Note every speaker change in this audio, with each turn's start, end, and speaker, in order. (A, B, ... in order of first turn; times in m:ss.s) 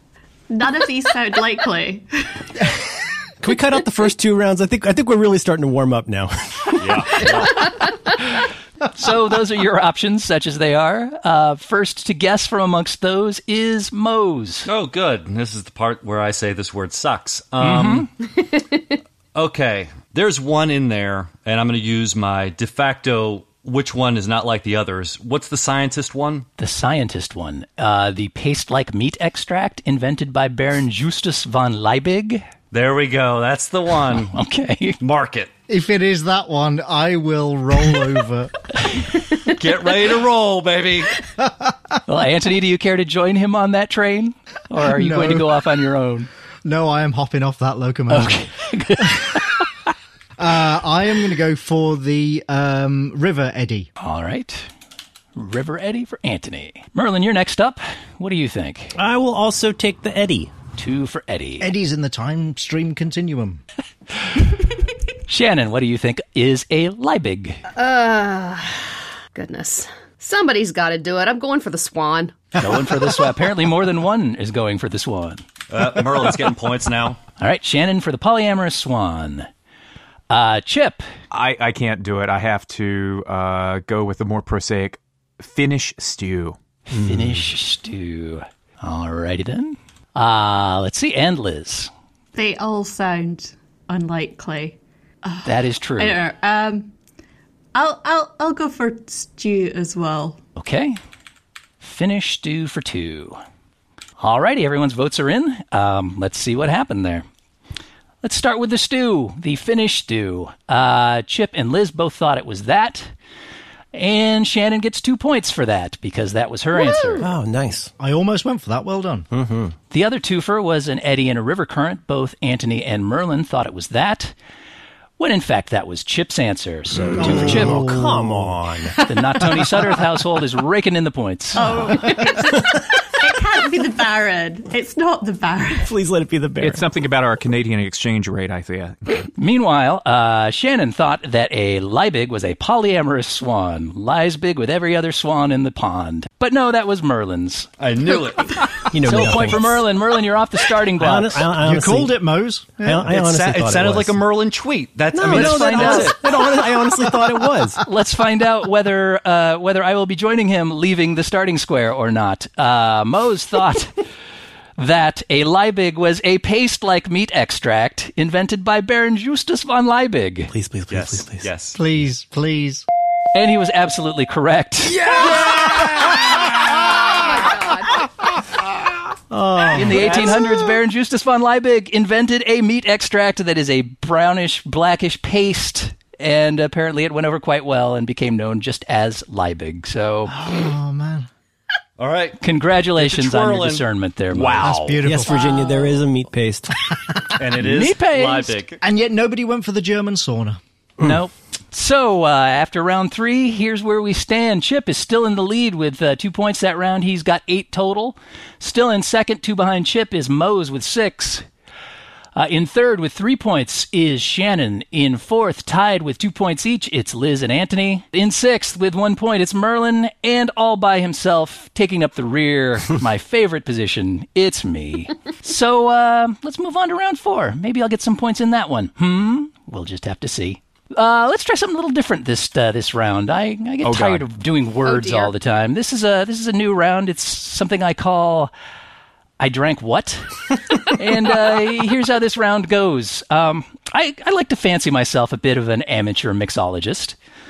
0:00.5-0:02.5 A
0:03.4-0:07.2 B
0:06.8-0:07.8 C
0:08.9-0:14.7 D
0:14.7-0:18.1 C
0:17.6-0:18.1 D
0:19.4-0:26.5 C
0:26.6-0:32.4 D
0:32.7-0:34.3 C
0:34.1-0:35.0 D
0:35.0-0:35.5 C
0:35.7-0:38.6 E
0:39.4-0:41.2 C
0:41.4-0:41.7 E
0:42.1-0:46.3 D
0:44.8-0:45.5 E
0:46.6-0:48.5 E
0:48.1-0:49.6 D
0:50.4-0:53.9 E
0:54.0-0:54.7 D
0:55.4-0:59.0 D
0:59.0-1:00.5 B
1:00.8-1:01.7 D
1:01.6-1:03.6 E
1:05.3-1:07.6 D
1:07.8-1:12.5 F
1:12.6-1:15.4 D
1:15.7-1:17.2 C
1:17.4-1:19.5 D
1:20.3-1:21.0 D
1:21.3-1:26.6 G
1:26.9-1:31.9 D
1:26.9-1:27.4 B
1:32.4-1:36.9 A
1:35.4-1:36.2 D
1:37.7-1:40.4 A
1:40.6-1:41.0 D
1:41.8-1:43.4 D
1:44.2-1:47.2 D
1:48.2-1:53.1 D
1:53.9-1:57.3 D
1:56.7-1:57.3 F
1:57.2-1:57.9 B
1:58.0-1:59.3 E
1:59.3-1:59.7 B
1:59.9-2:04.3 D
2:05.2-2:07.8 D
2:06.9-2:09.0 B
2:07.2-2:08.6 E
2:09.0-2:11.8 D
2:11.5-2:15.9 A
2:15.8-2:16.9 B
2:16.6-2:19.2 G
2:19.4-2:27.7 D
2:27.8-2:28.9 C
2:28.9-2:29.9 B
2:29.0-2:31.5 D
2:31.0-2:32.2 B
2:31.6-2:33.1 E
2:32.8-2:34.2 B
2:33.1-2:36.6 C
2:35.1-2:37.8 B
2:35.3-2:36.4 D
2:37.8-2:44.0 D
2:44.8-2:50.5 D
2:50.5-2:51.5 B
2:50.9-2:51.8 C
2:51.8-2:52.8 E
2:53.3-2:55.2 D
2:56.9-2:58.0 F
2:59.3-3:00.5 B
2:59.7-3:10.4 D
2:59.9-3:00.3 C
3:10.3-3:11.3 E
3:12.0-3:12.4 C
3:12.4-3:14.8 D
3:12.9-3:13.8 C
3:14.3-3:15.0 G
3:14.6-3:15.6 E
3:15.0-3:16.7 B
3:17.3-3:18.8 C
3:17.6-3:18.6 D
3:18.8-3:20.6 E
3:21.0-3:31.4 D
3:32.4-3:58.5 D
3:53.8-3:54.3 G
3:54.8-3:55.3 F
3:59.4-4:07.2 D